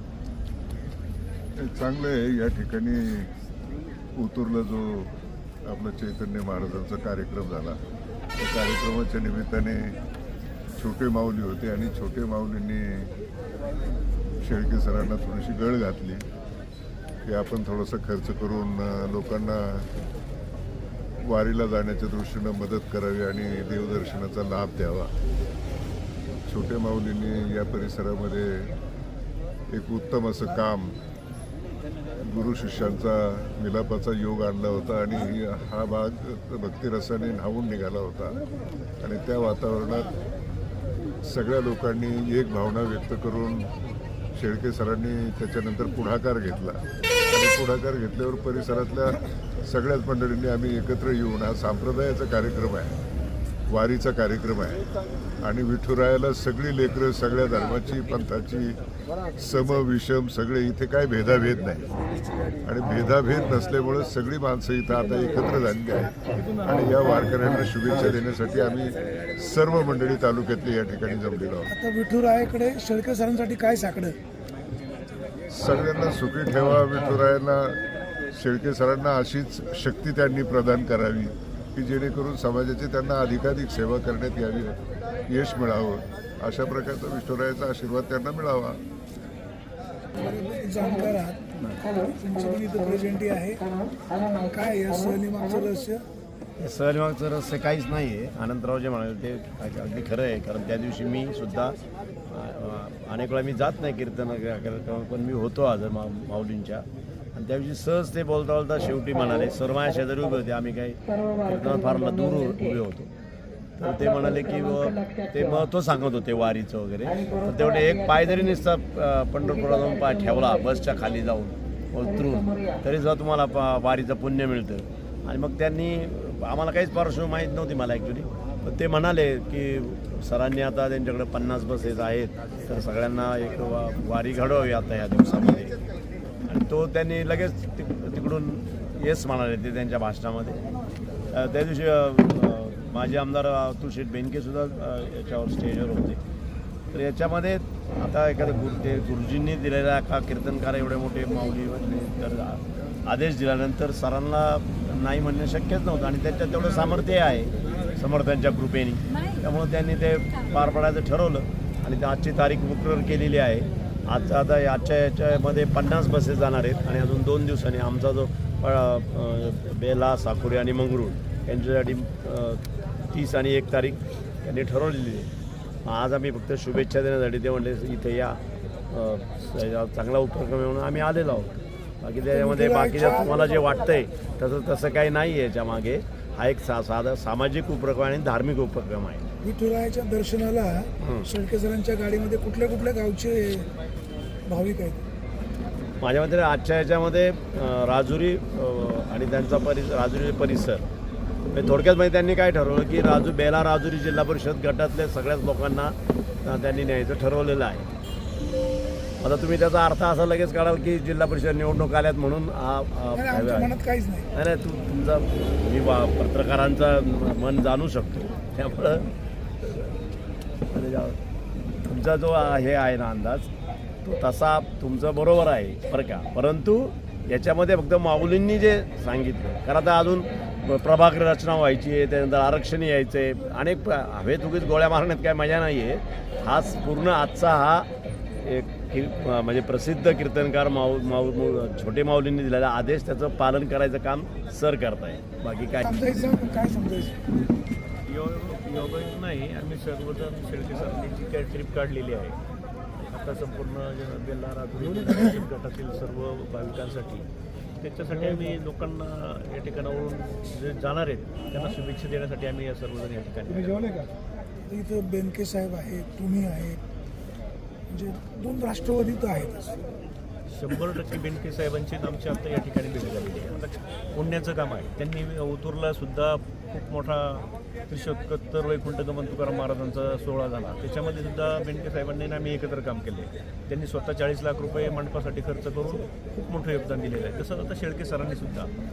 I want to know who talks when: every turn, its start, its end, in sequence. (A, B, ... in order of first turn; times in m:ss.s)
0:01.6-0:03.3 A
0:04.2-0:05.1 A
0:05.6-0:07.8 A
0:08.4-0:10.0 A
0:10.8-0:13.1 A
0:14.4-0:16.2 A
0:17.3-0:19.9 A
0:21.3-0:25.1 A
0:26.5-0:28.8 A
0:29.7-0:31.0 A
0:32.2-0:38.4 A
0:39.0-0:40.1 A
0:41.2-0:43.7 A
0:44.4-0:53.0 A
0:53.7-0:54.8 A
0:55.4-0:58.8 A
0:59.4-1:01.9 A
1:02.6-1:11.7 A
1:11.7-1:14.2 B
1:15.5-1:17.8 A
1:18.3-1:24.8 A
1:25.3-1:28.8 A
1:30.2-1:31.4 B
1:31.9-1:33.7 B
1:34.3-1:36.0 B
1:36.6-1:53.1 C
1:53.8-2:15.8 C
2:16.4-2:20.6 C
2:21.3-2:26.2 C
2:26.9-2:55.3 C
2:55.8-3:09.3 C
3:02.3-3:03.4 B
3:09.4-3:13.7 B
3:11.0-3:11.3 C
3:14.5-3:15.0 B
3:16.0-3:20.9 C
3:21.5-3:27.9 C
3:29.2-3:33.8 C
3:33.1-3:34.3 B
3:34.3-3:40.0 C
3:40.7-3:43.5 C
3:44.0-3:57.9 C
3:58.4-4:05.9 C
4:05.9-4:07.2 B
4:08.0-4:12.4 D
4:13.0-4:17.3 D
4:17.8-4:23.9 D
4:24.7-4:26.8 B
4:27.9-4:29.8 B
4:30.5-4:48.7 D